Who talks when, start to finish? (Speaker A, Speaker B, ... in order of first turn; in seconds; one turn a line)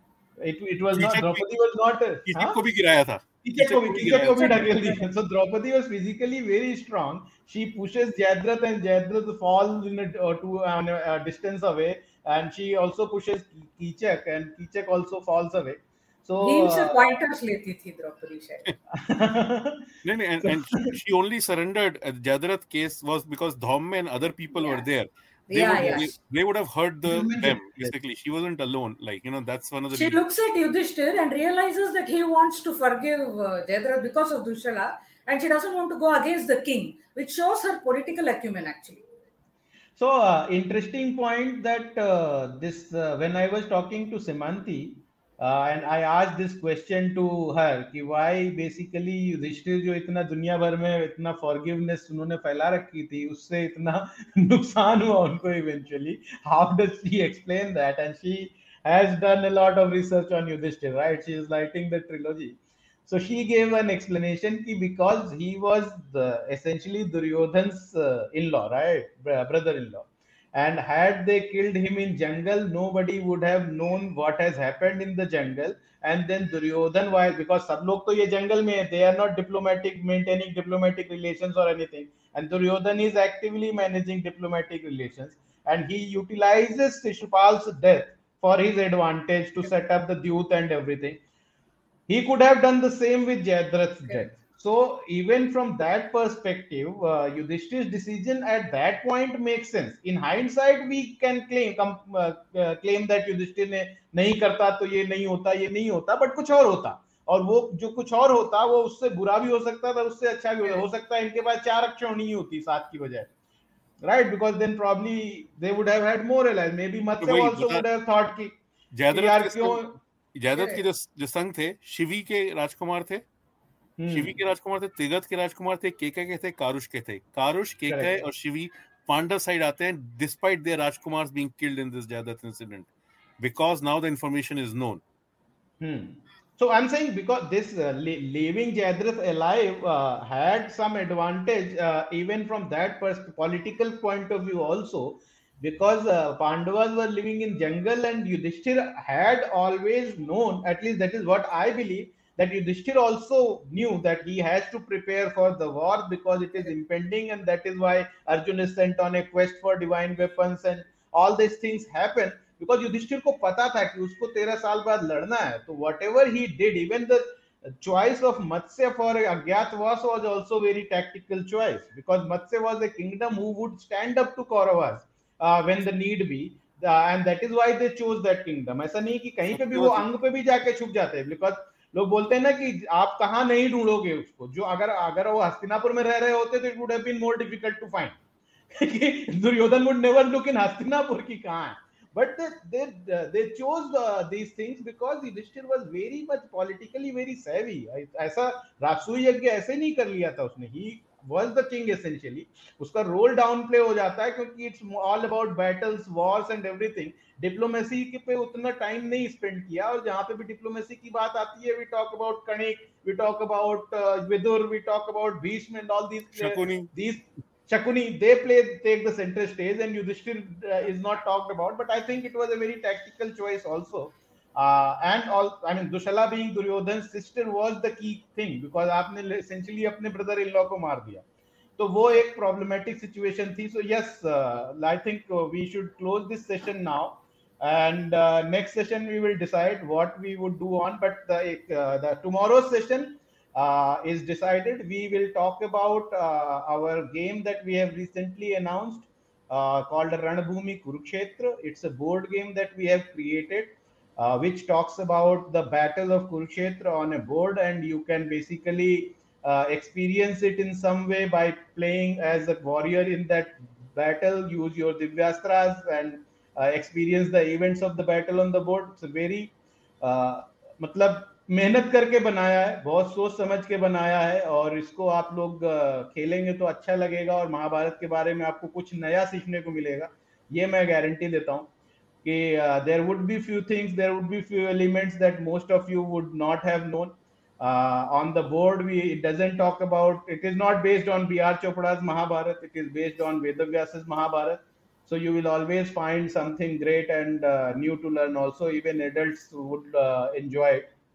Speaker A: 0.4-2.6
Speaker B: 0.9-1.4
Speaker B: 2.2-5.0
Speaker A: 3.4-17.1
Speaker C: 16.4-18.6
Speaker A: 18.9-19.9
Speaker B: 20.0-30.2
Speaker A: 20.4-20.9
Speaker C: 24.6-24.8
Speaker C: 25.5-26.1
Speaker A: 27.1-27.9
Speaker C: 29.9-39.0
Speaker A: 40.0-91.2
Speaker A: 92.1-113.3
Speaker A: 114.0-118.6
Speaker B: 117.2-117.8
Speaker B: 118.9-123.2
Speaker A: 119.1-120.0
Speaker A: 124.0-124.3
Speaker B: 124.1-135.0
Speaker A: 127.8-128.2
Speaker A: 135.8-188.2
Speaker B: 179.5-180.1
Speaker A: 188.7-231.2
Speaker B: 216.3-216.9
Speaker A: 231.8-281.7
Speaker A: 282.2-300.9